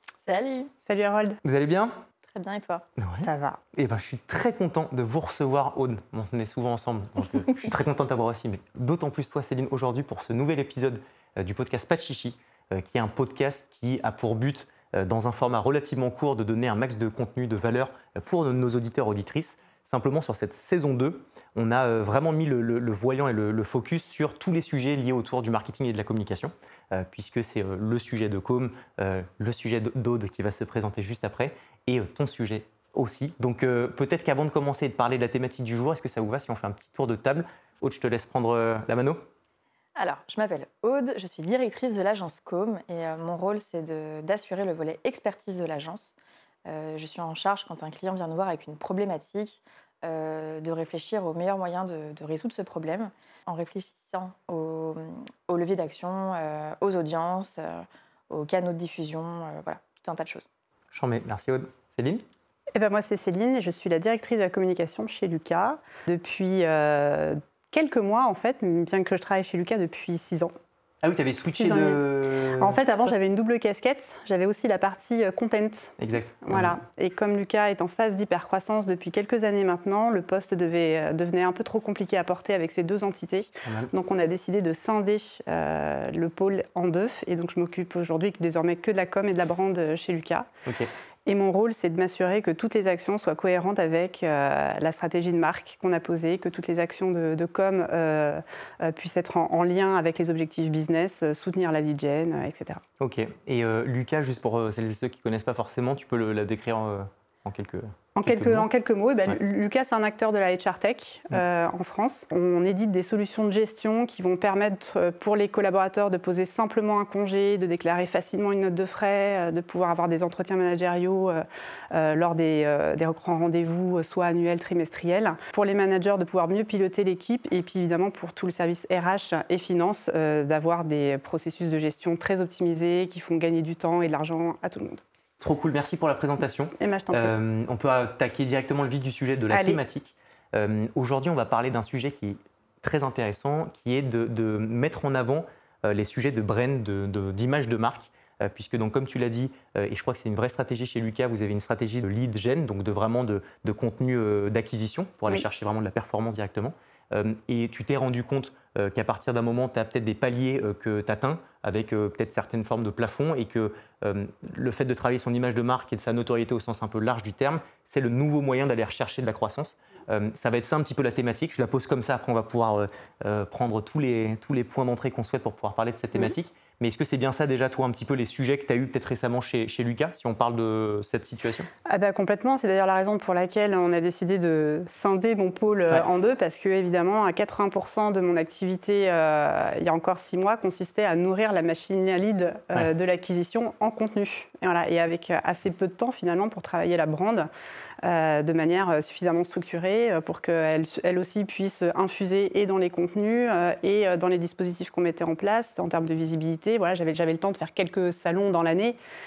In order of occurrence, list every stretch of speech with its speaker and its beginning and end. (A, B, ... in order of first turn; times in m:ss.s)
0:00.2-0:00.7 A
0:00.8-0:01.4 B
0:01.4-0:02.0 C
0:02.3-0:02.8 A
0:03.0-0:39.2 C
0:03.2-0:03.6 B
0:40.0-0:46.1 A
0:46.6-1:00.5 A
1:00.9-1:02.2 C
1:02.7-1:10.5 B
1:11.0-1:12.8 C
1:11.5-1:30.5 B
1:16.0-1:16.8 C
1:23.6-1:23.9 C
1:31.2-1:42.8 B
1:43.0-1:48.7 C
1:48.1-2:15.0 B
2:15.4-3:01.7 C
2:16.7-2:17.3 B
2:19.5-2:19.8 B
3:01.8-3:17.5 B
3:18.0-3:29.0 B